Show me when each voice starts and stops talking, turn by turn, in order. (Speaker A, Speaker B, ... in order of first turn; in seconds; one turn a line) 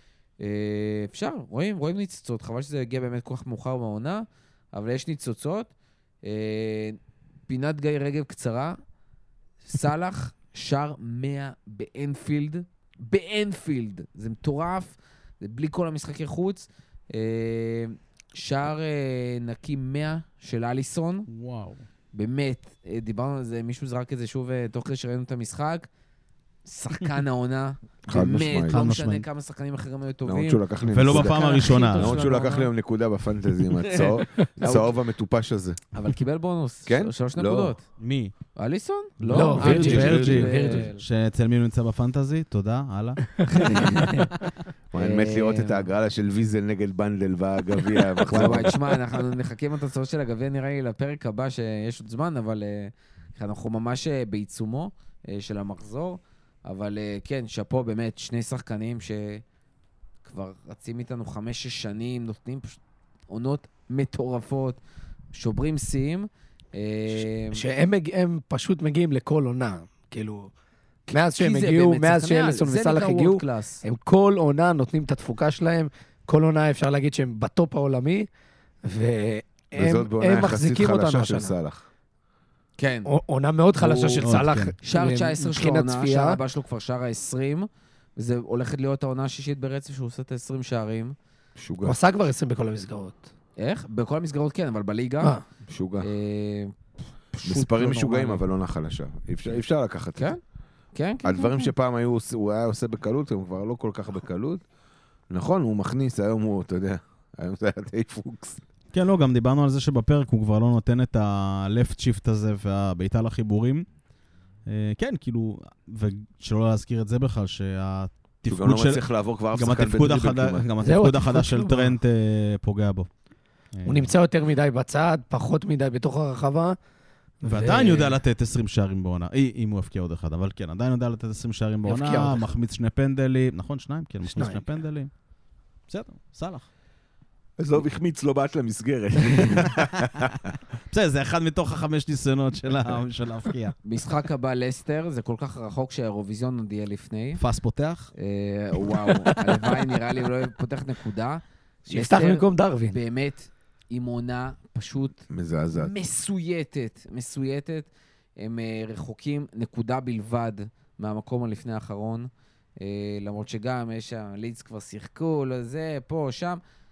Speaker A: 0.4-5.7
Speaker A: 6.2-8.8
Speaker A: 9.7-21.3
Speaker B: 21.3-21.8
Speaker A: 22.1-25.9
Speaker A: 26.6-32.7
Speaker C: 28.1-28.8
Speaker B: 28.7-29.2
Speaker C: 30.2-35.8
Speaker B: 30.9-32.2
Speaker A: 33.8-35.0
Speaker A: 35.9-37.8
Speaker C: 36.9-37.8
Speaker B: 38.0-38.3
Speaker A: 38.6-41.0
Speaker B: 39.2-43.3
Speaker D: 39.3-40.9
Speaker C: 39.6-40.6
Speaker A: 43.5-44.3
Speaker C: 44.9-48.7
Speaker A: 45.0-45.9
Speaker A: 48.3-59.4
Speaker A: 60.2-64.8
Speaker A: 65.3-67.6
Speaker D: 67.5-70.5
Speaker A: 71.1-73.8
Speaker D: 71.1-78.3
Speaker D: 78.8-81.5
Speaker C: 79.8-81.8
Speaker A: 82.8-83.1
Speaker D: 83.1-86.4
Speaker A: 83.8-84.3
Speaker B: 84.2-84.7
Speaker A: 84.8-91.2
Speaker C: 91.6-92.0
Speaker D: 91.8-93.2
Speaker A: 93.6-95.4
Speaker C: 95.7-96.1
Speaker A: 96.0-96.7
Speaker A: 97.3-98.4
Speaker C: 97.4-100.3
Speaker A: 100.9-101.7
Speaker C: 101.2-104.6
Speaker C: 105.3-108.6
Speaker B: 108.9-113.9
Speaker B: 114.7-123.1
Speaker C: 118.5-120.7
Speaker D: 120.8-122.0
Speaker B: 123.7-124.1
Speaker D: 123.8-126.8
Speaker D: 127.4-128.2
Speaker B: 127.4-135.1
Speaker D: 131.8-132.6
Speaker D: 134.2-134.6
Speaker B: 135.9-136.7
Speaker C: 137.6-140.4
Speaker B: 140.9-143.8
Speaker A: 143.8-147.4
Speaker B: 147.4-148.1
Speaker A: 148.2-166.6
Speaker D: 151.9-153.0
Speaker C: 155.3-155.9